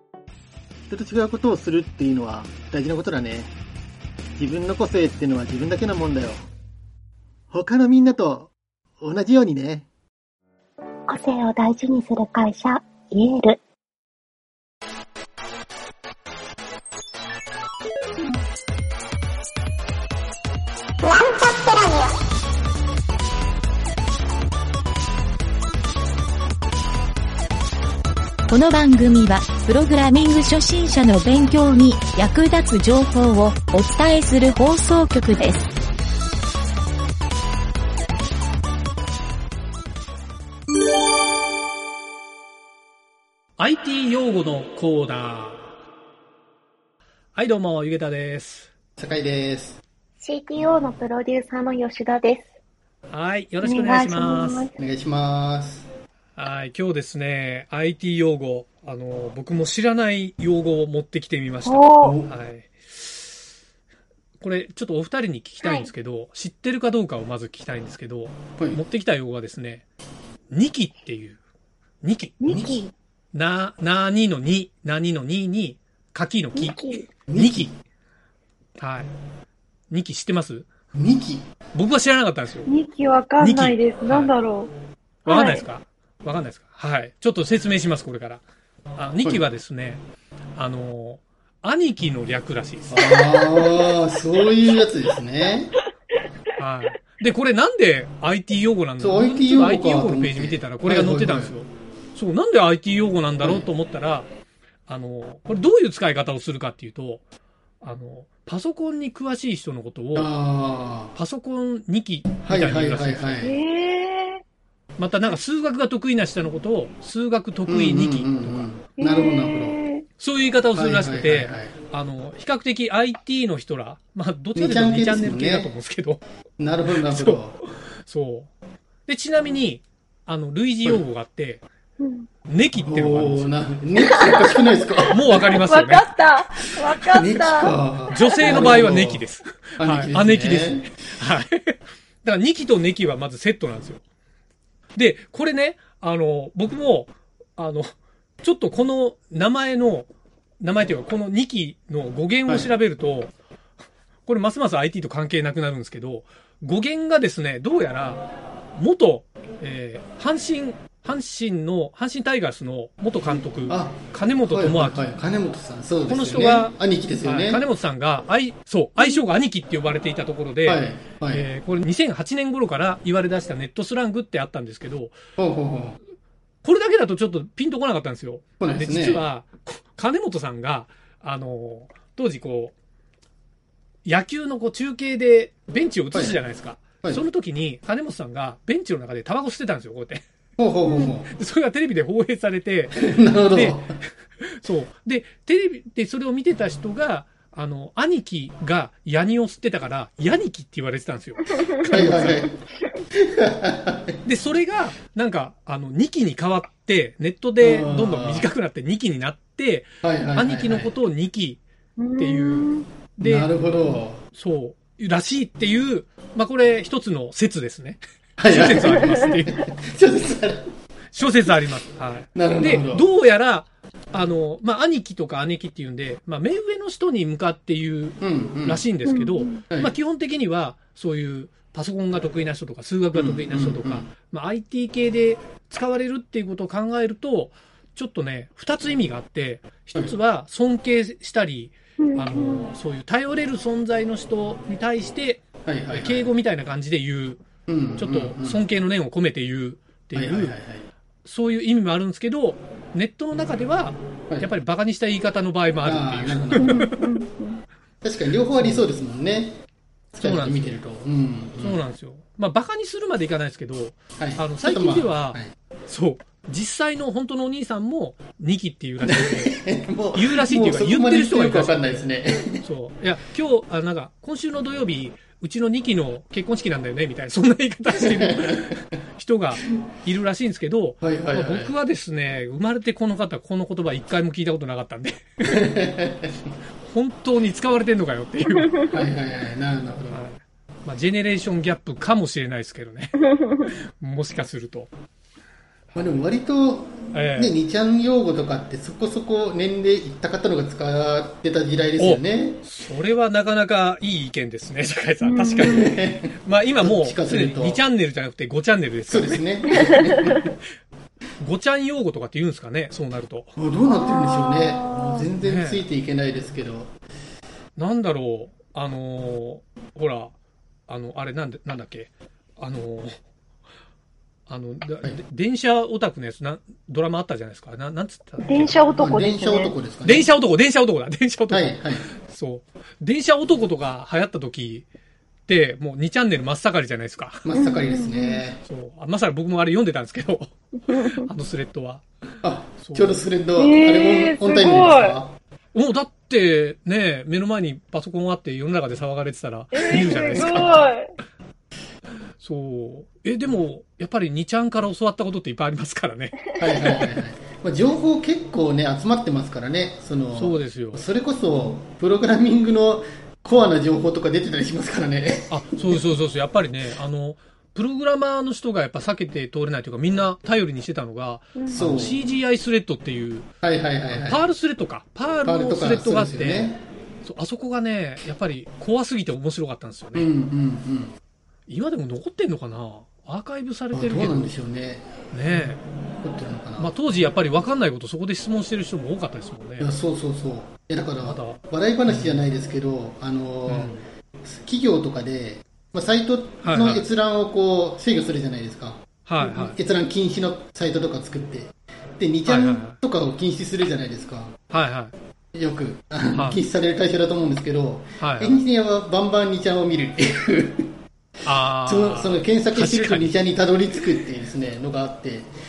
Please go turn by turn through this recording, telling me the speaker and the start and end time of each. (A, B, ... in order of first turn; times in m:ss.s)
0:00.9-0:03.5 A
0:04.4-0:06.4 A
0:07.5-0:09.9 A
0:11.1-0:13.6 B
0:28.5-0:35.7 C
0:43.6-0:45.7 D
0:47.3-0:48.7 D
0:49.0-0:49.8 A
0:50.2-0:52.5 B
0:53.1-0:54.7 D
0:53.6-0:54.7 B
0:54.8-0:55.9 A
0:56.4-1:03.4 D
1:01.6-1:02.2 E
1:02.0-1:02.3 A
1:04.4-1:09.9 D
1:05.6-1:05.9 B
1:10.5-1:11.4 D
1:12.0-1:12.5 D
1:12.4-1:12.9 E
1:12.5-1:12.8 A
1:13.3-1:17.7 D
1:16.6-1:17.0 E
1:17.3-1:17.7 A
1:18.8-1:19.1 D
1:19.9-1:20.7 D
1:20.9-1:21.4 A
1:21.7-1:22.7 D
1:22.6-1:24.7 E
1:23.4-1:24.3 D
1:25.2-1:25.6 E
1:25.2-1:28.4 D
1:29.0-1:30.0 D
1:30.5-1:33.1 D
1:32.9-1:35.8 A
1:33.0-1:34.4 E
1:36.6-1:44.3 D
1:39.0-1:41.5 A
1:43.4-1:43.7 A
1:44.9-1:47.2 D
1:47.8-1:50.3 D
1:50.1-1:51.1 A
1:51.1-1:53.4 D
1:52.4-1:53.6 A
1:53.4-1:54.4 E
1:55.0-1:58.7 D
1:57.6-1:59.8 A
1:58.9-2:00.0 E
2:00.2-2:06.2 D
2:00.7-2:01.7 A
2:04.5-2:05.7 A
2:06.6-2:07.6 A
2:06.9-2:08.5 D
2:09.0-2:11.6 D
2:12.0-2:12.3 E
2:12.5-2:13.6 D
2:12.8-2:15.5 A
2:14.0-2:14.6 E
2:15.1-2:16.2 D
2:15.5-2:18.8 E
2:17.1-2:19.2 A
2:18.1-2:24.0 D
2:19.8-2:20.8 A
2:25.0-2:30.1 D
2:30.6-2:33.3 D
2:34.2-2:45.1 D
2:43.2-2:47.6 A
2:46.1-2:55.2 D
2:50.6-2:51.5 A
2:55.4-2:56.0 A
2:56.6-3:02.7 D
2:58.6-2:59.2 A
3:04.0-3:10.2 D
3:06.1-3:06.4 A
3:10.6-3:11.3 A
3:10.9-3:11.1 E
3:11.2-3:22.5 D
3:13.0-3:13.9 A
3:21.9-3:22.5 A
3:23.2-3:24.1 A
3:24.2-3:31.6 D
3:27.6-3:28.5 A
3:30.0-3:30.9 A
3:32.0-3:32.9 E
3:32.2-3:33.5 D
3:33.2-3:34.2 A
3:34.3-3:39.6 D
3:38.4-3:40.7 A
3:41.1-4:07.4 D
3:42.3-3:43.1 A
3:48.2-3:48.8 A
3:49.0-3:49.6 E
3:53.1-3:54.1 A
4:02.0-4:02.7 E
4:05.6-4:06.3 A
4:07.7-4:08.6 A
4:08.0-4:10.6 D
4:10.1-4:10.9 A
4:11.2-4:16.9 D
4:15.8-4:16.8 A
4:16.6-4:17.6 E
4:18.0-4:19.6 A
4:18.6-4:18.9 D
4:20.1-4:21.8 A
4:20.2-4:20.9 D
4:21.6-4:29.6 D
4:24.2-4:25.5 A
4:29.0-4:32.6 A
4:30.1-4:45.7 D
4:37.9-4:38.7 A
4:41.0-4:41.7 A
4:45.5-4:46.3 A
4:46.8-4:48.9 D
4:48.8-4:50.2 A
4:50.1-4:54.9 D
4:55.9-5:02.6 A
4:57.1-4:57.5 D
5:02.0-5:10.2 D
5:05.2-5:05.9 E
5:05.5-5:07.8 A
5:09.1-5:10.5 A
5:09.9-5:10.1 E
5:11.4-5:13.5 D
5:13.6-5:16.9 A
5:13.8-5:15.3 E
5:15.4-5:15.9 D
5:17.8-5:20.3 D
5:20.9-5:23.1 D
5:24.5-5:28.9 D
5:28.4-5:29.7 E
5:29.0-5:30.3 A
5:30.0-5:34.8 D
5:31.5-5:32.0 A
5:35.5-5:37.4 D
5:37.4-5:38.6 A
5:37.5-5:38.4 E
5:38.6-5:42.0 D
5:40.9-5:41.3 E
5:42.4-5:45.4 A
5:42.8-5:43.2 D
5:43.6-5:45.2 E
5:45.7-5:50.9 D
5:49.7-5:51.1 E
5:52.4-5:57.2 D
5:56.6-6:06.0 A
6:00.3-6:01.0 D
6:05.5-6:13.5 D
6:11.6-6:11.9 E
6:11.7-6:12.2 A
6:13.6-6:14.4 A
6:14.1-6:20.3 D
6:15.4-6:16.8 A
6:20.1-6:21.1 A
6:21.7-6:24.6 D
6:23.9-6:25.1 A
6:25.3-6:25.8 D
6:26.2-6:26.9 A
6:26.8-6:29.9 D
6:29.8-6:44.5 A
6:31.2-6:32.5 D
6:33.7-6:34.0 D
6:36.6-6:37.1 D
6:39.2-6:39.8 D
6:42.4-6:43.0 D
6:44.7-6:45.1 D
6:45.5-6:50.9 A
6:46.3-6:46.6 D
6:48.2-6:48.6 D
6:51.4-6:53.4 D
6:51.8-6:55.5 A